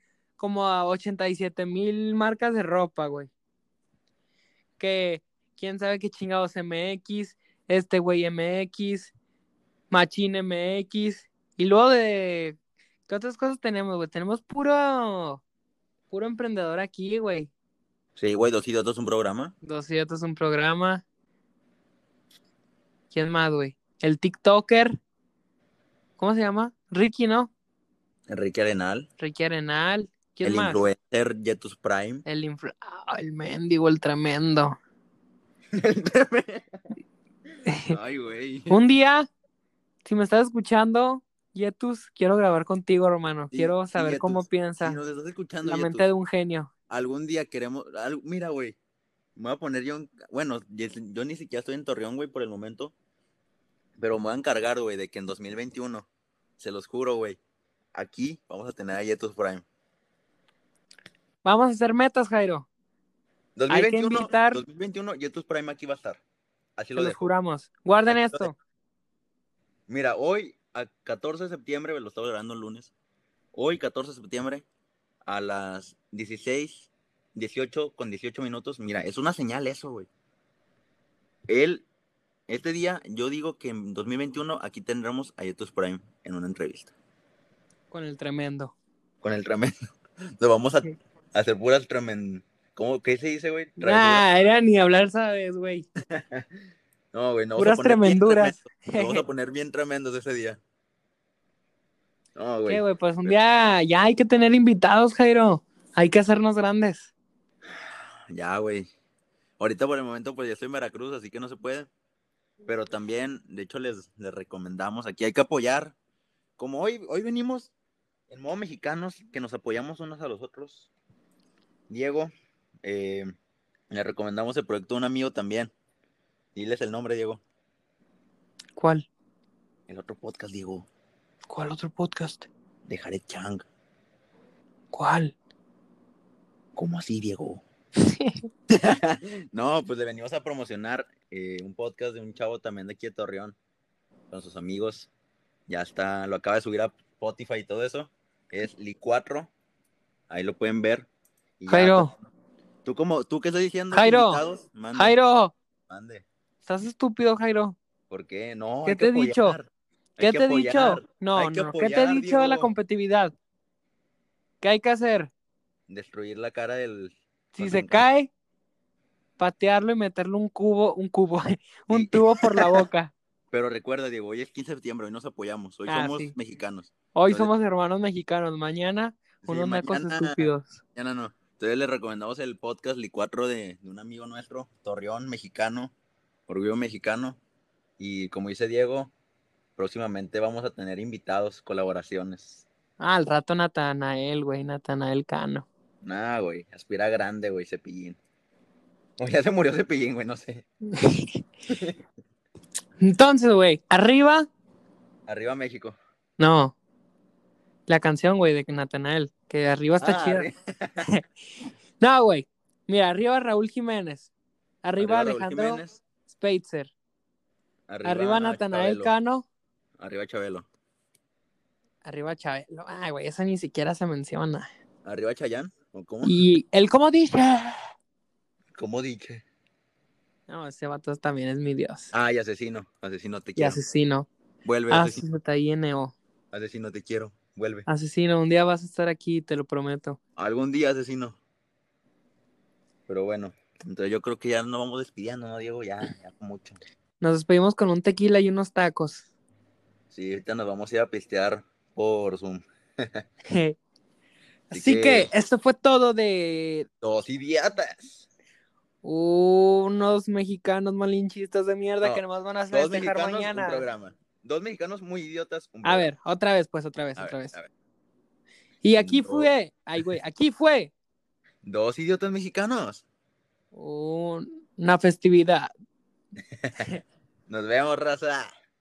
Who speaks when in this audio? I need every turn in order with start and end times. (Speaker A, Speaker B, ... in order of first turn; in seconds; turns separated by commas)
Speaker A: 0.4-3.3, Speaker A: 4.8-9.1, Speaker A: 9.9-15.4, Speaker A: 16.1-17.5, Speaker B: 18.1-19.5, Speaker A: 19.6-21.0, Speaker A: 23.1-24.9, Speaker A: 26.2-27.5, Speaker B: 28.3-29.1, Speaker A: 29.2-30.8, Speaker B: 30.4-32.2, Speaker A: 32.2-34.8, Speaker B: 35.7-36.7, Speaker A: 37.7-38.0, Speaker B: 37.9-38.8, Speaker A: 38.7-39.3, Speaker A: 40.0-45.0, Speaker B: 43.5-46.1, Speaker A: 45.6-46.7, Speaker B: 46.9-48.8, Speaker B: 49.4-52.9, Speaker B: 54.0-56.0, Speaker B: 56.6-57.4, Speaker B: 57.9-59.6, Speaker A: 61.4-62.7, Speaker B: 63.5-66.2, Speaker A: 63.7-64.6, Speaker B: 66.8-67.3, Speaker A: 66.9-68.5, Speaker B: 68.1-68.5, Speaker B: 69.9-72.9, Speaker B: 73.5-74.6, Speaker B: 75.2-80.1, Speaker B: 81.5-81.8, Speaker B: 82.5-86.9, Speaker A: 87.9-88.7, Speaker B: 89.2-89.7, Speaker B: 90.4-94.2, Speaker A: 93.8-95.9, Speaker B: 96.1-96.4, Speaker B: 97.1-100.6, Speaker A: 97.5-99.2, Speaker B: 102.3-103.3, Speaker A: 102.7-107.1, Speaker B: 107.7-108.9, Speaker B: 109.6-111.9, Speaker B: 112.7-115.9, Speaker B: 116.6-117.7, Speaker B: 118.3-120.9, Speaker B: 121.9-122.3, Speaker B: 122.8-123.3, Speaker B: 123.9-125.7, Speaker B: 126.5-127.4, Speaker A: 128.8-129.1, Speaker B: 129.9-130.9, Speaker A: 131.5-132.5, Speaker B: 132.8-133.7, Speaker A: 134.9-135.3, Speaker B: 136.7-137.6, Speaker A: 138.0-138.4, Speaker B: 138.7-143.6, Speaker B: 144.3-145.1, Speaker B: 145.7-149.5, Speaker B: 150.3-151.1, Speaker B: 151.6-152.2, Speaker A: 151.7-152.1, Speaker B: 152.8-155.1, Speaker A: 153.9-154.4, Speaker A: 154.9-155.5, Speaker B: 155.9-156.2, Speaker A: 156.6-157.8, Speaker B: 158.1-162.7, Speaker A: 158.8-159.6, Speaker A: 160.2-163.3, Speaker A: 164.6-165.3, Speaker B: 165.9-168.0, Speaker A: 167.5-168.3, Speaker A: 169.4-173.1, Speaker B: 171.9-172.7, Speaker B: 173.5-177.5, Speaker A: 175.9-176.3, Speaker A: 177.1-180.8, Speaker B: 179.4-185.9, Speaker B: 186.5-187.4, Speaker B: 188.0-189.1, Speaker B: 189.8-192.6, Speaker A: 193.0-195.7, Speaker B: 196.0-198.2, Speaker B: 199.2-200.6, Speaker A: 201.0-201.4, Speaker B: 201.7-201.9, Speaker A: 203.0-204.5, Speaker B: 205.3-206.0, Speaker A: 206.4-206.7, Speaker A: 207.9-210.5, Speaker B: 210.0-211.1, Speaker A: 212.0-214.3, Speaker A: 214.8-216.9, Speaker B: 215.0-216.0, Speaker B: 217.9-219.1, Speaker A: 218.0-219.4, Speaker B: 220.0-220.7, Speaker A: 222.0-224.7, Speaker B: 225.0-226.4, Speaker A: 226.2-227.8, Speaker B: 228.7-229.4, Speaker A: 230.5-232.1, Speaker B: 232.1-233.8, Speaker A: 233.6-234.3, Speaker B: 234.6-235.2, Speaker A: 234.9-236.1, Speaker B: 236.5-237.8, Speaker A: 237.8-240.2, Speaker B: 240.3-241.4, Speaker B: 243.1-246.8, Speaker A: 247.2-249.2, Speaker B: 250.1-253.2, Speaker A: 253.5-253.8, Speaker A: 254.7-256.9, Speaker B: 254.7-255.3, Speaker B: 257.0-258.2, Speaker A: 259.0-263.9, Speaker B: 262.0-266.1, Speaker A: 265.8-267.6, Speaker B: 267.1-267.7, Speaker A: 268.8-270.9, Speaker B: 269.0-269.5, Speaker B: 271.6-273.0, Speaker A: 273.7-275.7, Speaker B: 277.5-278.5